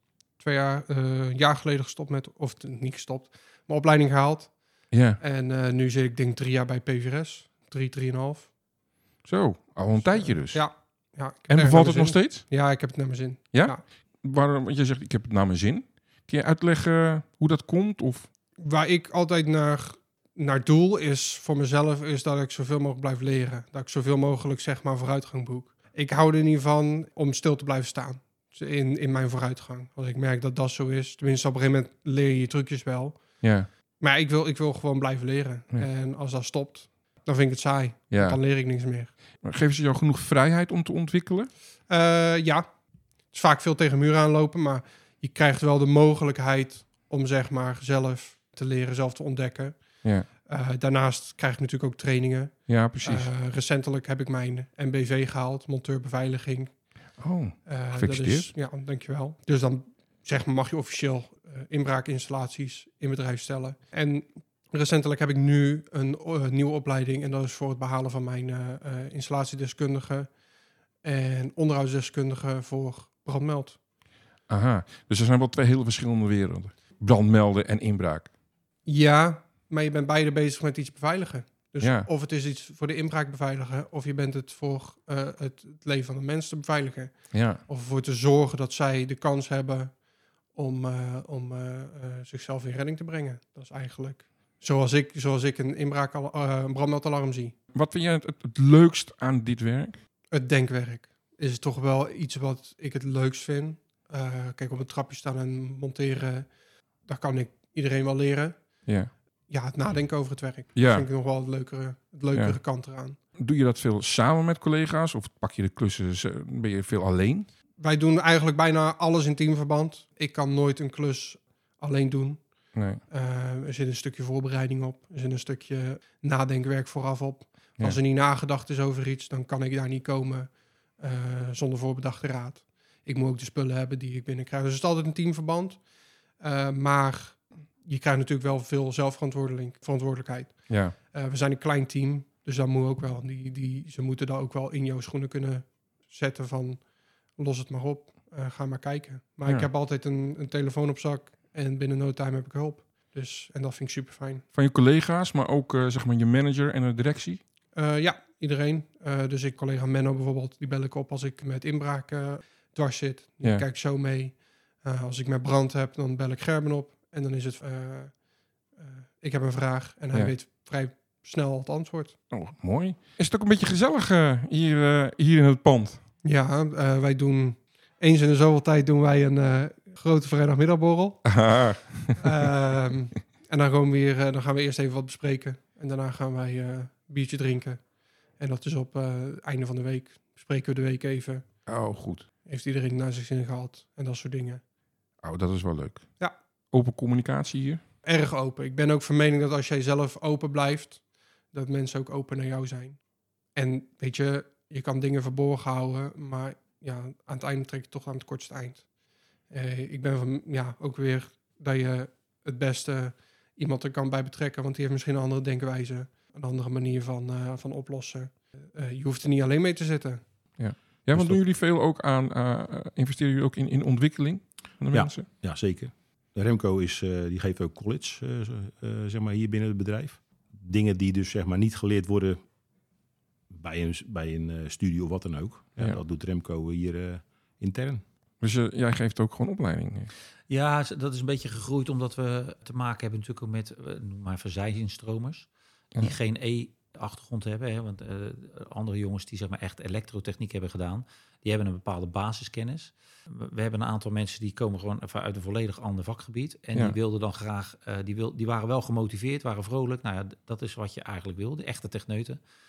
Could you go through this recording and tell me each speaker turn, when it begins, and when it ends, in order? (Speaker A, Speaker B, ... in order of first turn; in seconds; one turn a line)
Speaker A: 0.4-8.6
Speaker B: 4.9-5.2
Speaker B: 9.2-12.5
Speaker A: 10.0-13.8
Speaker B: 13.5-18.3
Speaker A: 18.6-39.1
Speaker B: 33.4-33.7
Speaker B: 38.1-38.4
Speaker B: 39.4-41.5
Speaker A: 41.9-57.0
Speaker B: 52.7-53.3
Speaker B: 57.2-58.5
Speaker A: 57.7-70.4
Speaker A: 71.0-73.8
Speaker B: 74.5-78.3
Speaker A: 78.8-97.5
Speaker B: 81.8-82.1
Speaker B: 87.3-87.6
Speaker B: 97.7-100.0
Speaker A: 100.3-113.2
Speaker B: 108.9-109.1
Speaker B: 110.8-111.1
Speaker B: 112.3-112.6
Speaker B: 113.4-117.5
Speaker A: 117.8-154.4
Speaker B: 122.7-123.0
Speaker B: 140.7-140.9
Speaker B: 154.5-157.4
Speaker A: 157.7-172.2
Speaker B: 172.3-176.0
Speaker A: 176.2-191.6
Speaker B: 181.2-182.3
Speaker B: 191.7-192.3
Speaker A: 192.4-194.6
Speaker B: 195.2-197.8
Speaker A: 198.0-220.5
Speaker B: 220.6-225.3
Speaker C: 221.1-221.4
Speaker C: 224.9-232.4
Speaker C: 233.5-238.0
Speaker B: 238.4-240.1
Speaker D: 240.5-262.4